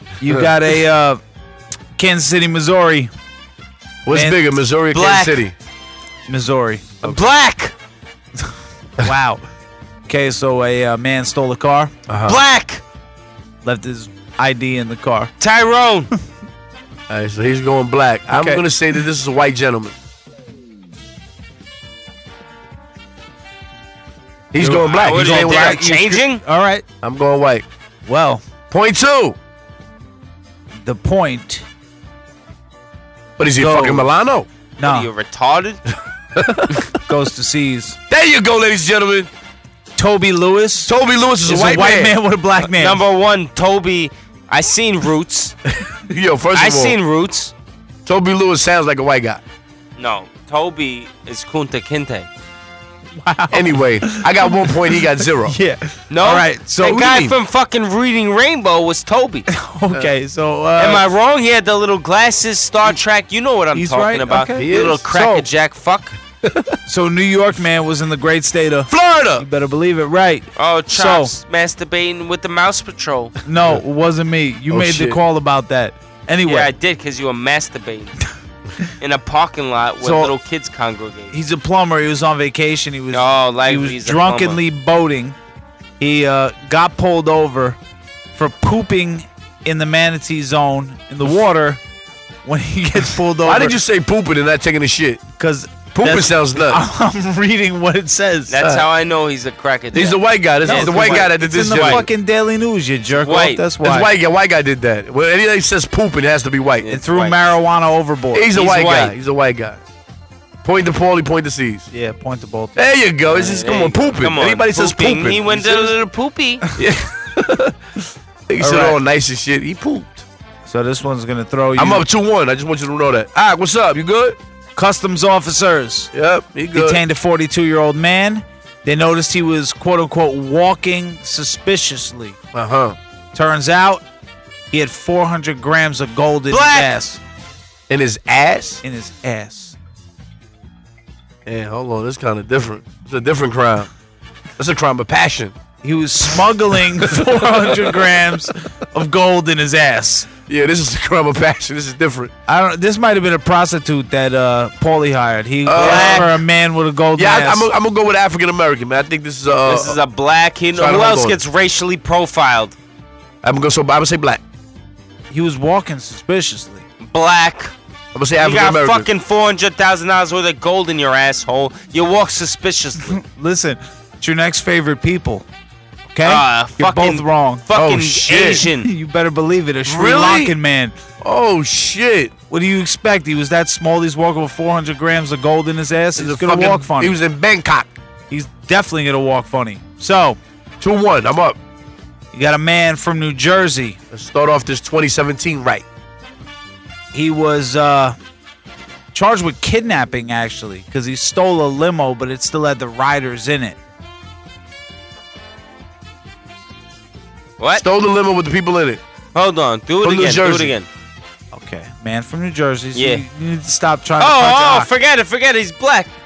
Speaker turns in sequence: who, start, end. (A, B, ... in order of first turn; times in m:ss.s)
0:00.2-0:01.2 A
0:00.2-0:00.5 B
0:02.0-0:03.1 A
0:04.0-0:05.6 B
0:04.1-0:04.4 A
0:04.9-0:05.4 C
0:06.3-0:07.0 A
0:07.0-0:07.7 C
0:09.0-0:09.4 A
0:10.1-0:11.9 A
0:12.1-0:12.4 B
0:12.2-0:12.8 C
0:13.6-0:15.3 A
0:15.4-0:16.1 C
0:17.1-0:20.0 B
0:18.3-0:18.6 A
0:24.5-0:25.9 B
0:24.6-0:26.8 A
0:24.8-0:26.4 C
0:27.0-0:27.6 B
0:28.0-0:28.4 A
0:28.7-0:29.4 B
0:30.8-0:31.6 A
0:33.4-0:34.5 B
0:33.6-0:34.1 A
0:34.8-0:35.1 A
0:34.8-0:35.8 C
0:36.4-0:36.8 B
0:37.0-0:38.0 A
0:38.1-0:39.3 B
0:40.0-0:43.0 A
0:40.9-0:42.2 B
0:42.7-0:45.6 C
0:45.9-0:47.0 B
0:46.5-0:47.5 C
0:48.0-0:49.4 B
0:50.0-0:52.3 C
0:53.2-0:57.3 A
0:53.5-0:55.6 B
0:56.1-0:59.5 C
0:56.9-0:57.3 B
0:59.5-1:01.1 A
1:00.8-1:06.2 C
1:03.7-1:05.4 A
1:04.6-1:05.4 B
1:06.9-1:11.3 A
1:08.9-1:09.4 B
1:10.6-1:13.4 C
1:13.4-1:16.7 A
1:14.7-1:15.2 B
1:16.4-1:18.2 C
1:19.0-1:21.4 C
1:21.3-1:25.4 A
1:23.1-1:24.6 C
1:26.0-1:27.8 A
1:28.4-1:31.8 A
1:32.4-1:33.8 A
1:33.4-1:35.2 B
1:35.4-1:38.6 A
1:36.0-1:36.8 B
1:38.5-1:42.0 C
1:38.6-1:38.9 B
1:39.9-1:42.1 B
1:40.6-1:44.1 A
1:43.2-1:43.6 C
1:43.8-1:46.9 B
1:46.8-1:47.6 C
1:46.9-1:48.5 A
1:48.3-1:49.8 B
1:48.5-1:49.1 C
1:50.6-1:51.9 B
1:51.9-1:52.8 A
1:52.8-1:56.0 B
1:53.3-1:56.6 C
1:56.8-1:57.7 B
1:58.5-2:00.2 B
1:58.6-1:59.0 A
2:00.7-2:02.0 A
2:01.7-2:04.4 B
2:04.7-2:06.1 A
2:06.1-2:07.0 B
2:06.7-2:12.4 A
2:12.5-2:13.0 B
2:13.3-2:14.0 A
2:14.7-2:17.2 A
2:16.5-2:16.9 C
2:17.9-2:18.8 B
2:18.8-2:19.7 A
2:21.4-2:23.9 B
2:24.6-2:25.5 B
2:25.8-2:30.3 A
2:27.2-2:28.1 B
2:30.5-2:32.3 B
2:32.5-2:37.7 A
2:35.6-2:36.4 B
2:35.7-2:36.3 C
2:37.2-2:40.0 B
2:39.7-2:42.8 C
2:40.7-2:41.4 B
2:43.4-2:44.4 B
2:45.3-2:46.8 A
2:47.0-2:47.7 C
2:48.1-2:49.1 B
2:48.4-2:53.2 C
2:53.1-2:55.4 A
2:56.1-2:57.6 A
2:56.2-2:58.9 C
2:57.7-2:58.7 B
2:58.4-3:01.0 A
2:59.8-3:00.6 B
3:01.2-3:02.3 B
3:02.5-3:07.2 A
3:06.2-3:07.9 B
3:08.3-3:10.4 A
3:10.8-3:11.6 B
3:12.3-3:14.0 A
3:14.1-3:15.9 B
3:17.1-3:18.2 A
3:19.1-3:23.8 A
3:27.6-3:27.8 C
3:27.8-3:29.0 B
3:29.4-3:30.9 C
3:30.0-3:30.7 B
3:31.5-3:34.9 A
3:32.9-3:33.2 C
3:34.2-3:36.1 C